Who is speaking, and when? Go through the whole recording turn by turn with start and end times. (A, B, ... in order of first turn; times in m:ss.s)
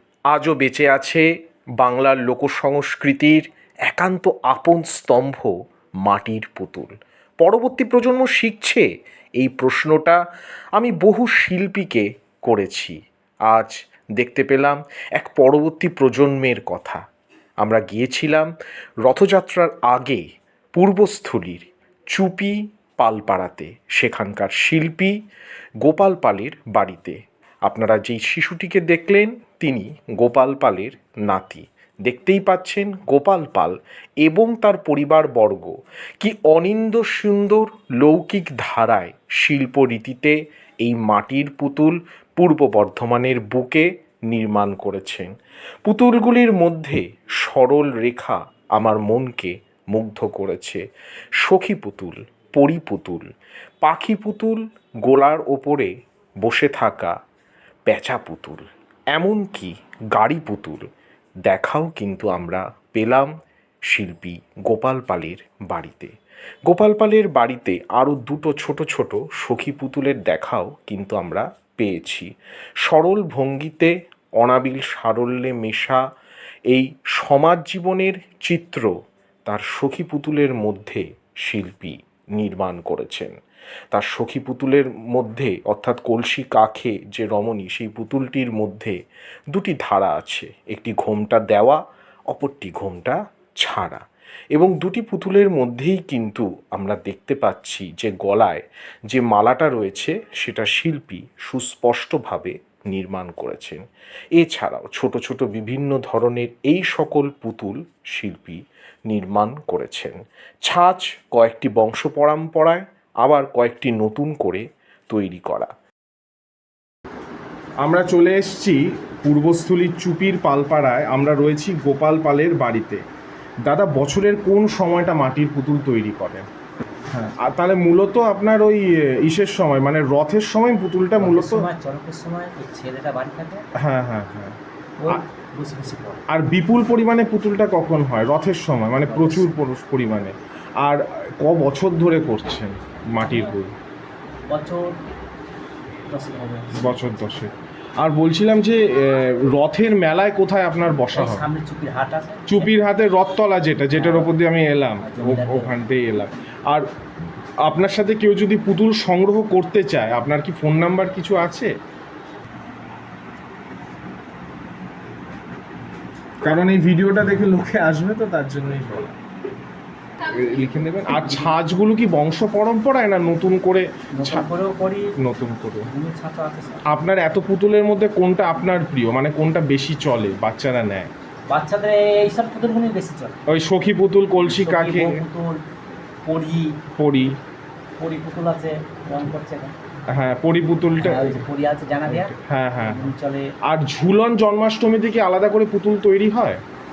0:00.4-0:01.2 A
0:01.8-0:05.5 A
0:06.0-0:06.9 A
0:07.4-0:08.8 A
0:09.4-0:10.2 A
0:10.9-0:17.0 A
0:17.6-0:18.5 A
0:19.0-0:20.2 A
0:20.8-0:25.2 A
0:25.8-0:45.3 A
0:45.8-0:50.8 A
0:51.4-0:53.3 A
0:53.8-0:55.9 A
0:56.4-0:57.1 A
0:57.9-1:00.8 A
1:01.5-1:03.3 A
1:03.9-1:06.1 A
1:06.7-1:12.3 A
1:12.9-1:16.0 A
1:16.7-1:18.9 A
1:19.5-1:23.3 A
1:23.9-1:29.0 A
1:29.5-1:31.8 A
1:32.3-1:34.0 A
1:34.5-1:43.8 A
1:44.4-1:50.2 A
1:50.7-1:55.7 A
1:57.8-2:03.0 B
2:03.7-2:06.5 B
2:07.1-2:11.6 B
2:11.2-2:13.6 C
2:13.8-2:14.6 B
2:15.0-2:16.2 C
2:16.3-2:23.7 B
2:19.0-2:19.5 C
2:23.2-2:23.6 C
2:24.5-2:25.0 C
2:26.1-2:27.5 C
2:26.8-2:31.5 B
2:31.1-2:32.7 C
2:32.5-2:36.8 B
2:33.9-2:34.3 C
2:35.0-2:35.7 C
2:37.7-2:41.7 B
2:46.4-2:49.1 B
2:50.2-2:54.5 B
2:51.1-2:51.5 C
2:54.2-2:55.2 C
2:55.2-2:55.9 B
2:55.8-2:56.8 C
2:56.9-3:01.1 B
3:01.5-3:03.4 C
3:03.5-3:05.2 B
3:04.4-3:05.6 C
3:06.2-3:06.8 C
3:07.0-3:07.4 B
3:08.0-3:09.8 C
3:10.1-3:11.4 B
3:11.0-3:13.5 C
3:12.1-3:13.1 B
3:13.7-3:16.6 B